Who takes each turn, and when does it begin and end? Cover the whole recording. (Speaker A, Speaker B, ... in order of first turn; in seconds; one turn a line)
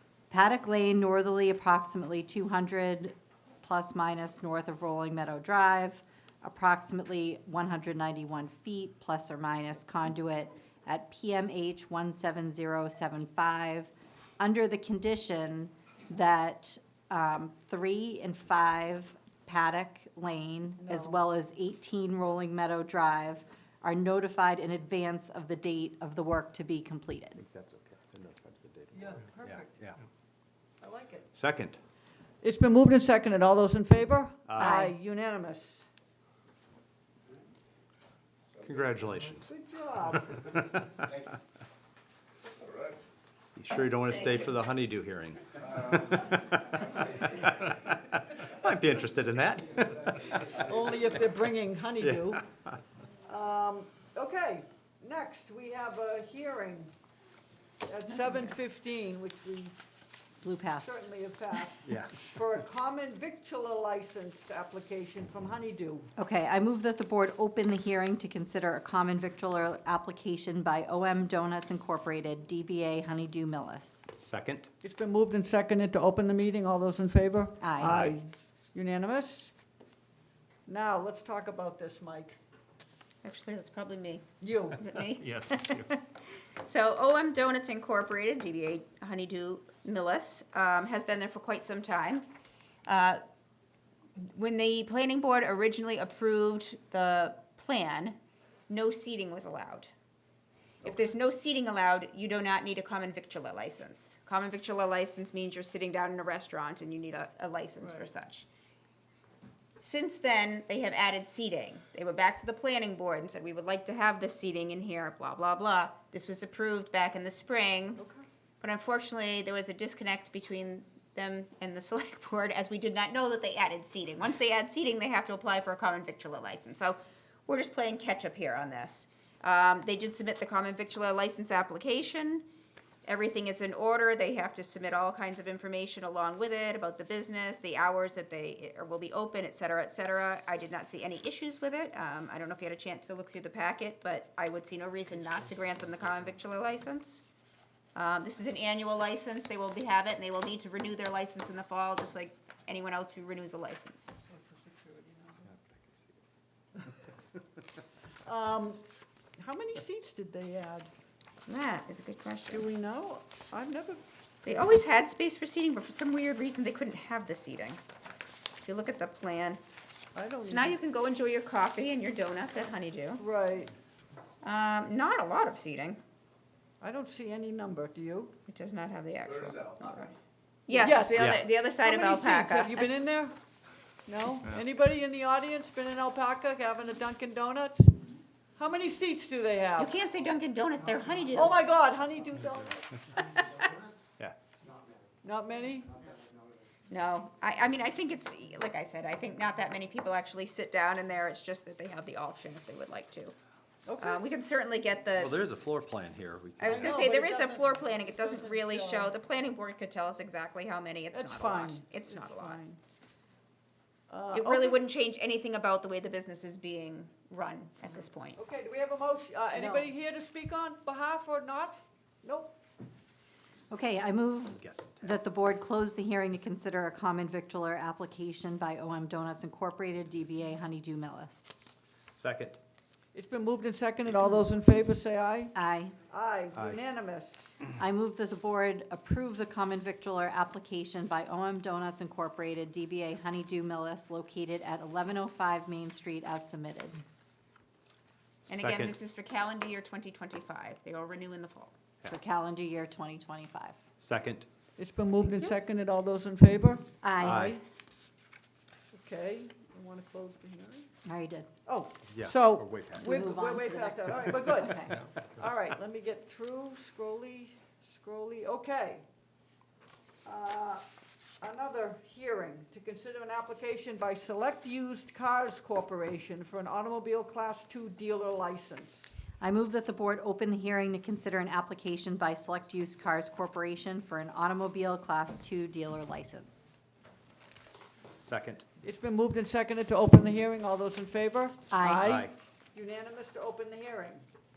Speaker A: 0.3-27.4
Speaker B: 20.9-21.2
Speaker C: 27.5-30.0
Speaker B: 28.9-29.8
Speaker B: 30.8-31.2
Speaker C: 31.3-31.8
Speaker B: 32.4-35.8
Speaker C: 34.5-34.8
Speaker A: 34.6-34.9
Speaker C: 38.6-39.5
Speaker B: 39.5-40.3
Speaker C: 40.3-40.9
Speaker C: 43.6-50.3
Speaker B: 50.6-52.4
Speaker C: 52.0-52.3
Speaker B: 53.3-56.9
Speaker B: 57.8-59.8
Speaker A: 60.4-61.0
Speaker B: 60.8-66.1
Speaker C: 61.9-62.2
Speaker A: 66.2-74.1
Speaker C: 74.2-74.7
Speaker B: 74.8-79.5
Speaker A: 77.6-78.0
Speaker C: 77.9-78.1
Speaker B: 80.7-82.4
Speaker D: 83.2-86.0
Speaker B: 84.4-84.8
Speaker C: 85.2-85.9
Speaker D: 86.6-92.3
Speaker D: 92.9-93.2
Speaker D: 94.2-98.2
Speaker D: 98.7-99.9
Speaker D: 100.8-108.5
Speaker D: 109.8-118.0
Speaker B: 118.0-118.2
Speaker D: 118.6-132.5
Speaker D: 133.1-147.2
Speaker D: 147.9-154.1
Speaker B: 154.3-155.5
Speaker C: 155.7-156.1
Speaker B: 158.2-158.8
Speaker B: 159.4-160.9
Speaker D: 161.5-162.7
Speaker B: 162.5-164.0
Speaker D: 164.4-167.8
Speaker D: 168.6-169.6
Speaker B: 170.2-170.8
Speaker D: 170.4-173.2
Speaker B: 173.2-173.7
Speaker D: 174.4-176.0
Speaker B: 176.8-178.3
Speaker D: 178.5-180.1
Speaker D: 180.7-182.9
Speaker B: 180.7-183.4
Speaker C: 181.2-181.4
Speaker B: 184.1-188.0
Speaker B: 188.6-189.9
Speaker D: 189.8-191.7
Speaker B: 191.3-193.1
Speaker D: 193.2-193.4
Speaker B: 195.2-196.0
Speaker D: 196.9-203.3
Speaker B: 203.9-204.2
Speaker D: 204.0-205.5
Speaker C: 205.2-207.1
Speaker D: 206.6-212.6
Speaker B: 206.7-209.2
Speaker B: 211.1-212.8
Speaker B: 214.1-214.8
Speaker D: 214.3-218.4
Speaker B: 218.4-222.6
Speaker A: 219.6-219.9
Speaker A: 223.7-231.5
Speaker C: 224.6-225.1
Speaker C: 232.2-232.6
Speaker B: 233.1-235.5
Speaker A: 235.6-236.0
Speaker B: 236.1-237.4
Speaker A: 237.8-247.0
Speaker D: 248.5-251.8
Speaker C: 248.6-248.9
Speaker A: 252.1-253.8
Speaker C: 254.0-254.5
Speaker B: 254.8-256.9
Speaker A: 257.0-257.6
Speaker C: 257.2-257.6
Speaker B: 258.9-260.9
Speaker A: 261.1-261.5
Speaker B: 261.7-269.0
Speaker C: 262.1-263.2
Speaker A: 263.0-265.0
Speaker B: 270.2-270.8
Speaker B: 271.4-279.1
Speaker A: 279.4-286.7
Speaker C: 288.2-288.6
Speaker B: 288.8-294.2
Speaker A: 291.7-292.1
Speaker C: 292.0-292.3